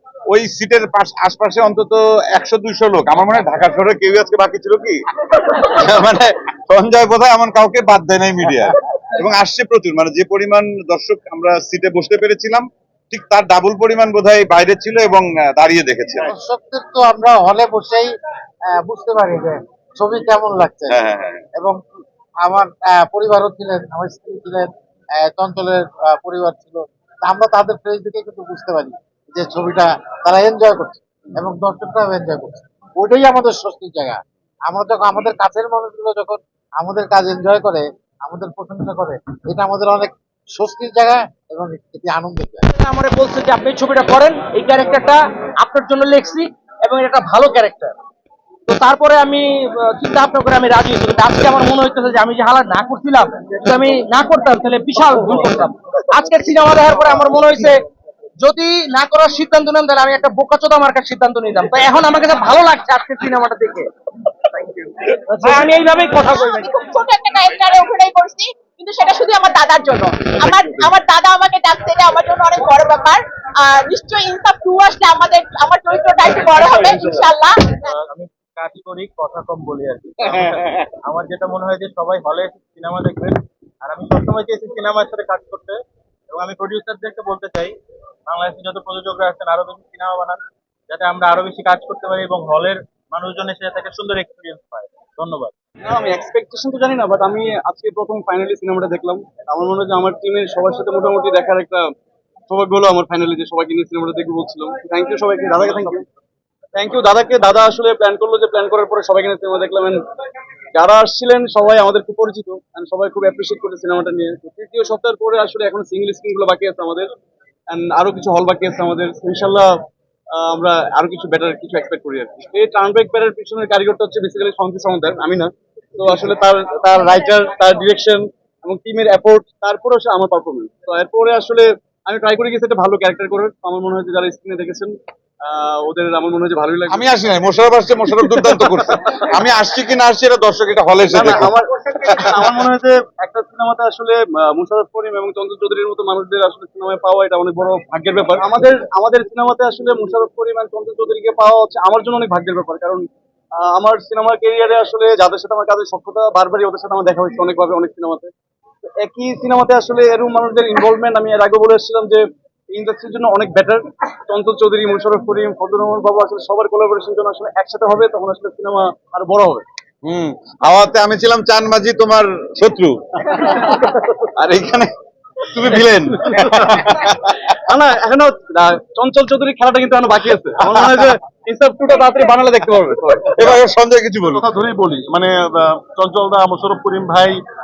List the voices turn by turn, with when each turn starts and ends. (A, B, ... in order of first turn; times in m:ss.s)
0:00.3-0:16.3 A
0:16.2-0:18.1 B
0:18.7-0:21.0 B
0:20.9-0:21.4 A
0:22.4-0:24.7 B
0:25.2-0:42.6 B
0:42.7-0:47.9 C
0:48.7-0:57.7 C
0:58.4-1:03.9 C
1:05.3-1:06.7 C
1:06.2-1:17.9 D
1:18.0-1:27.8 C
1:28.3-1:35.5 C
1:35.8-1:41.9 E
1:42.5-1:46.0 E
1:46.8-1:50.0 E
1:50.7-1:57.1 E
1:57.7-1:59.7 E
2:00.3-2:17.1 E
2:16.9-2:21.5 A
2:18.2-2:19.3 E
2:21.1-2:38.3 E
2:22.0-2:22.4 A
2:39.0-2:49.6 E
2:50.0-2:53.8 A
2:54.3-2:57.5 A
2:57.5-3:03.6 E
3:03.4-3:04.5 A
3:04.5-3:07.3 F